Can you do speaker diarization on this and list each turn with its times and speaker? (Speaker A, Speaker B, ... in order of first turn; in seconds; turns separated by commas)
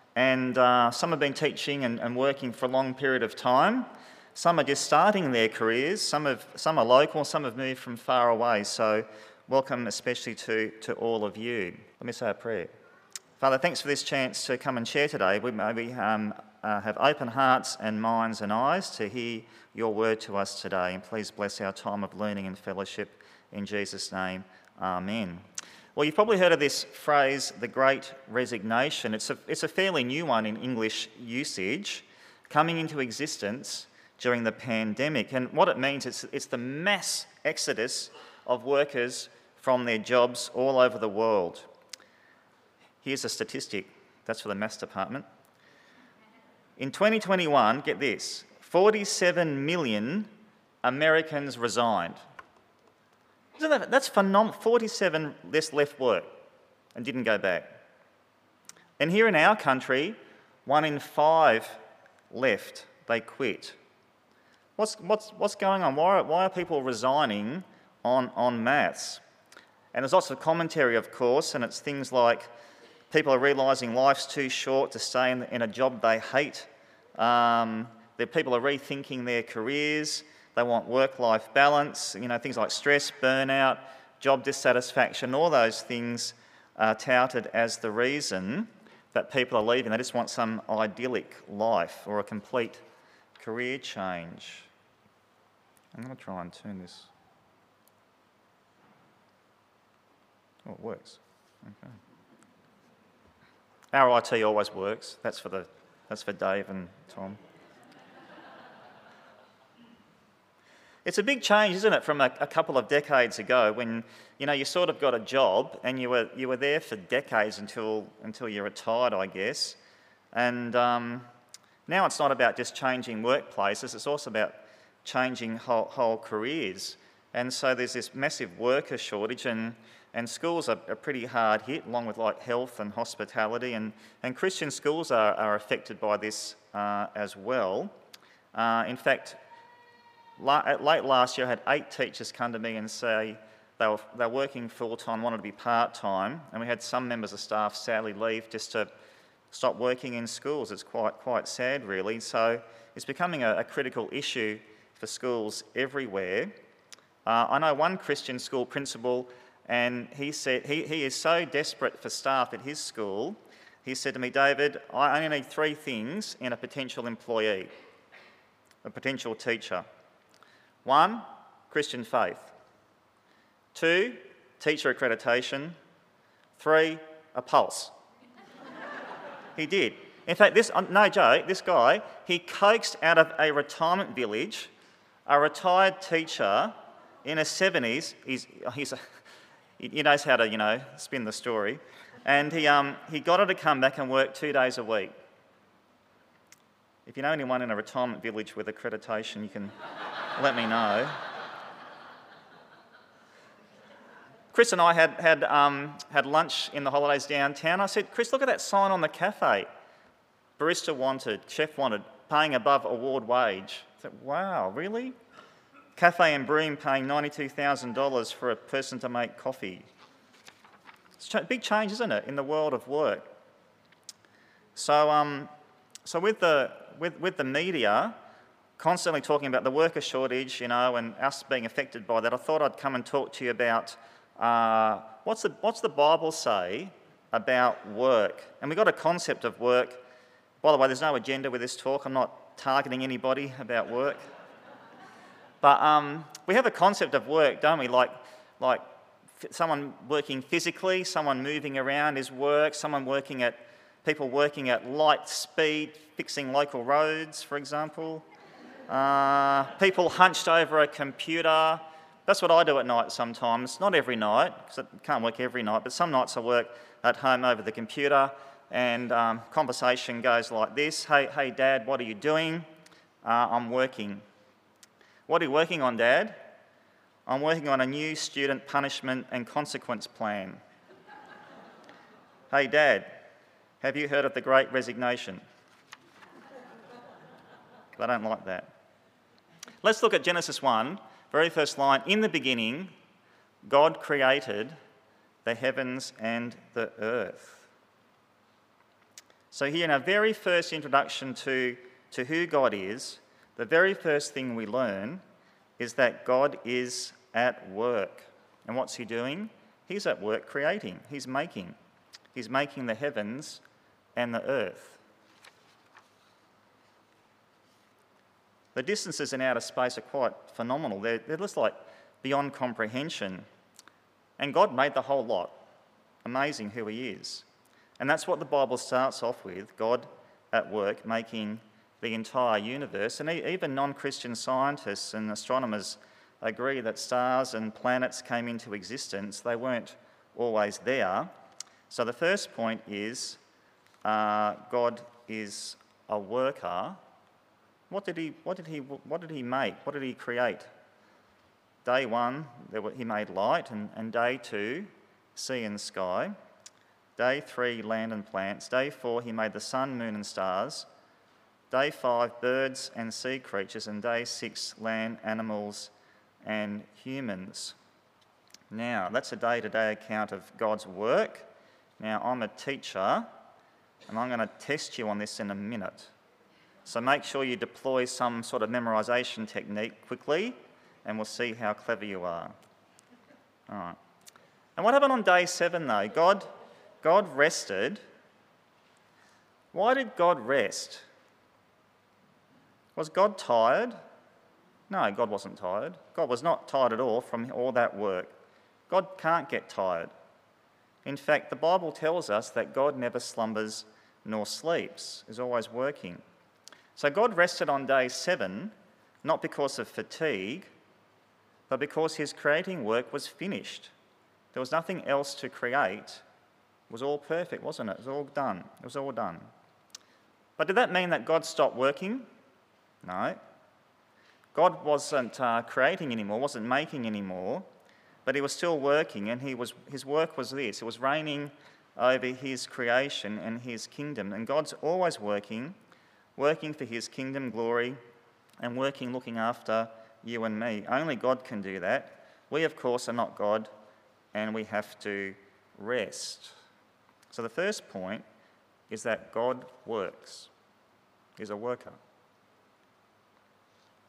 Speaker A: 0.1-12.7, Speaker A: 13.4-25.4, Speaker A: 26.0-41.7, Speaker A: 43.0-45.3, Speaker A: 46.8-50.3, Speaker A: 50.8-52.2, Speaker A: 53.6-56.3, Speaker A: 57.0-57.7, Speaker A: 59.0-61.8, Speaker A: 62.3-63.8, Speaker A: 64.8-69.2, Speaker A: 69.9-72.5, Speaker A: 73.1-92.8, Speaker A: 93.4-94.7, Speaker A: 95.9-97.1, Speaker A: 100.7-102.0, Speaker A: 103.9-107.4, Speaker A: 111.0-119.8, Speaker A: 120.3-121.3, Speaker A: 121.9-137.9, Speaker A: 138.5-139.4, Speaker A: 140.4-148.9, Speaker A: 149.5-156.5, Speaker A: 157.3-167.7, Speaker A: 168.8-169.9, Speaker A: 170.8-172.5, Speaker A: 173.7-175.8, Speaker A: 176.6-177.9, Speaker A: 179.6-184.7, Speaker A: 185.3-189.0, Speaker A: 189.8-195.2, Speaker A: 197.1-199.8, Speaker A: 200.3-201.2, Speaker A: 204.5-209.7, Speaker A: 210.6-215.2, Speaker A: 216.0-219.9, Speaker A: 221.2-223.3, Speaker A: 224.8-225.5, Speaker A: 226.1-228.2, Speaker A: 228.8-240.0, Speaker A: 240.6-244.2, Speaker A: 245.6-248.8, Speaker A: 249.3-258.3, Speaker A: 258.9-272.7, Speaker A: 273.2-274.2, Speaker A: 275.3-276.4, Speaker A: 277.3-280.6, Speaker A: 282.5-283.2, Speaker A: 283.8-285.4, Speaker A: 288.0-288.7, Speaker A: 289.8-292.9, Speaker A: 293.6-294.8, Speaker A: 295.4-297.7, Speaker A: 299.5-305.2, Speaker A: 305.8-311.8, Speaker A: 312.3-313.6, Speaker A: 314.1-315.0, Speaker A: 318.8-323.5, Speaker A: 324.4-325.6, Speaker A: 326.2-327.5, Speaker A: 328.0-341.3, Speaker A: 341.9-343.4, Speaker A: 344.0-347.0, Speaker A: 347.9-350.7, Speaker A: 351.9-356.4, Speaker A: 357.2-360.9, Speaker A: 361.7-365.9, Speaker A: 366.4-367.8, Speaker A: 368.7-371.5, Speaker A: 372.0-373.3, Speaker A: 374.1-376.1, Speaker A: 376.9-382.6, Speaker A: 383.7-384.0, Speaker A: 384.8-386.5, Speaker A: 387.0-388.0, Speaker A: 389.7-391.1, Speaker A: 393.0-394.0, Speaker A: 394.9-398.3, Speaker A: 398.9-400.1, Speaker A: 401.0-406.2, Speaker A: 406.9-410.7, Speaker A: 411.7-413.9, Speaker A: 414.5-416.2, Speaker A: 416.9-419.5, Speaker A: 420.6-422.3, Speaker A: 423.0-423.4, Speaker A: 424.5-427.7, Speaker A: 428.2-435.8, Speaker A: 436.4-438.0, Speaker A: 438.6-443.7, Speaker A: 444.3-446.6, Speaker A: 447.3-448.2, Speaker A: 448.9-450.5, Speaker A: 451.4-452.0